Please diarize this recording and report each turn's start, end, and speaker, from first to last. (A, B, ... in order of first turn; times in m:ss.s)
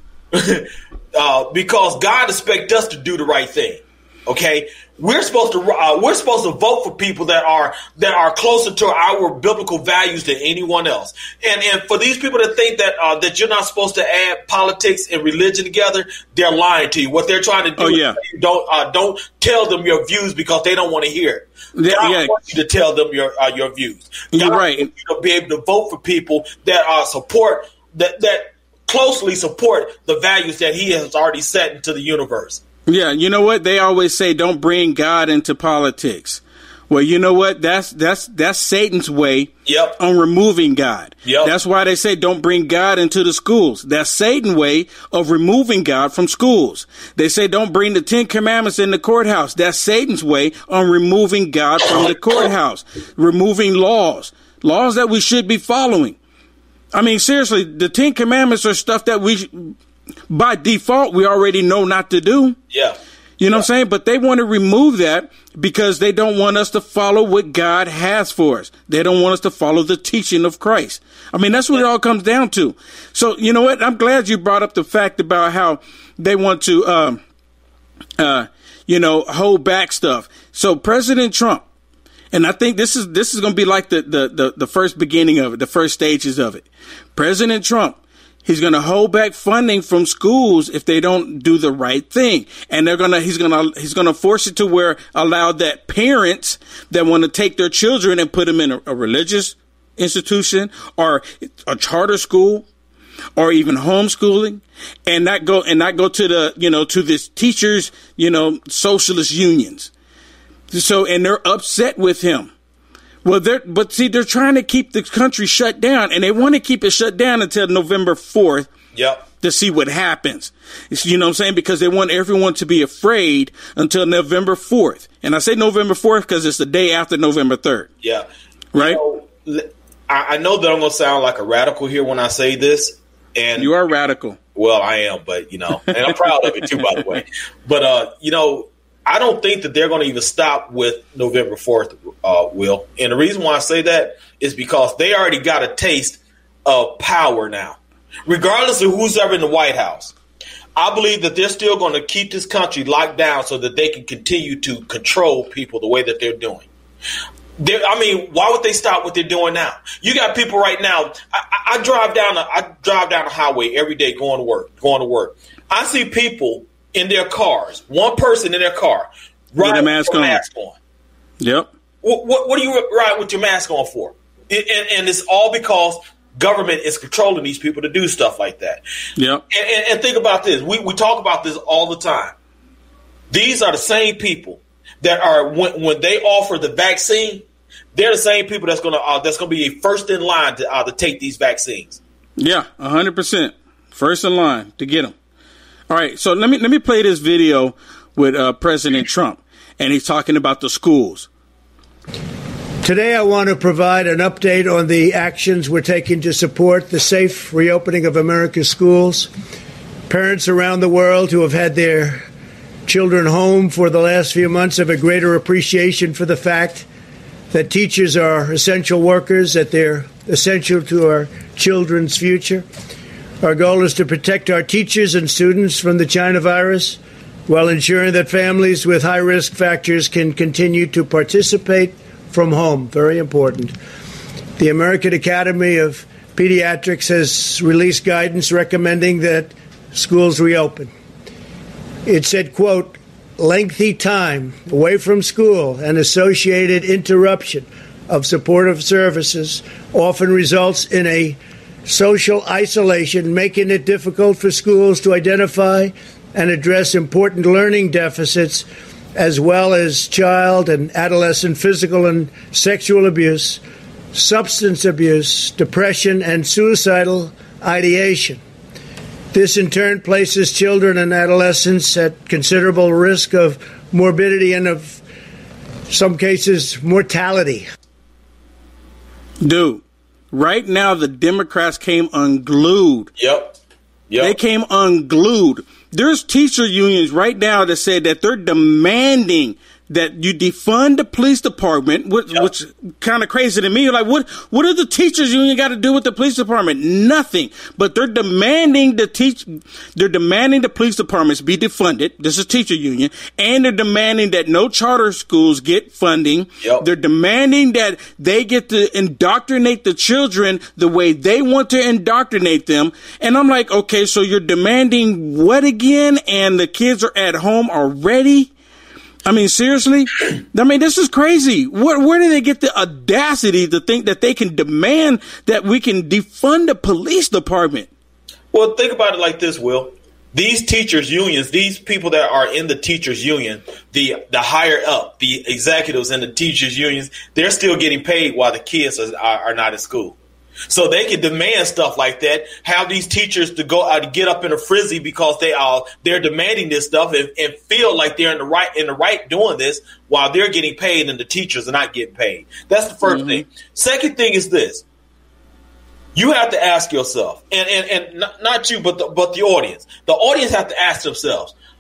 0:00.3-0:32.6 A
0:17.8-0:18.2 B
0:21.8-0:22.4 B
0:24.3-0:24.9 B
0:32.9-0:56.2 B
0:39.7-0:40.0 A
0:41.2-0:41.5 A
0:56.9-0:59.8 B
1:00.3-1:02.6 B
1:02.7-1:03.0 A
1:03.4-1:17.2 B
1:18.2-1:21.6 B
1:22.3-1:42.6 B
1:43.4-1:49.9 B
1:50.7-1:52.5 B
1:53.2-1:58.7 B
1:58.9-1:59.2 A
1:59.4-2:07.9 B
2:08.7-2:09.0 B
2:08.8-2:13.7 A
2:13.6-2:14.4 B
2:14.6-2:30.1 A
2:30.8-2:36.7 A
2:37.6-2:50.8 A
2:49.6-2:50.4 B
2:51.4-2:51.7 B
2:52.0-2:58.8 A
2:59.2-2:59.4 B
2:59.5-3:02.3 A
3:03.3-3:12.0 A
3:12.4-3:15.1 B
3:15.9-3:21.3 B
3:22.8-3:29.3 C
3:30.1-3:32.3 C
3:32.9-3:36.9 C
3:37.5-3:42.7 C
3:43.4-3:53.8 C
3:54.6-4:00.9 C
4:02.1-4:23.6 C
4:24.1-4:28.4 C
4:29.3-4:35.0 C
4:35.9-4:37.7 C
4:39.4-4:43.1 B
4:43.2-4:43.6 A
4:44.1-4:44.4 A
4:44.2-5:18.5 B
5:19.2-5:27.9 B
5:28.5-5:40.2 A
5:40.7-5:54.8 A
5:53.0-5:53.4 B
5:56.2-6:01.5 A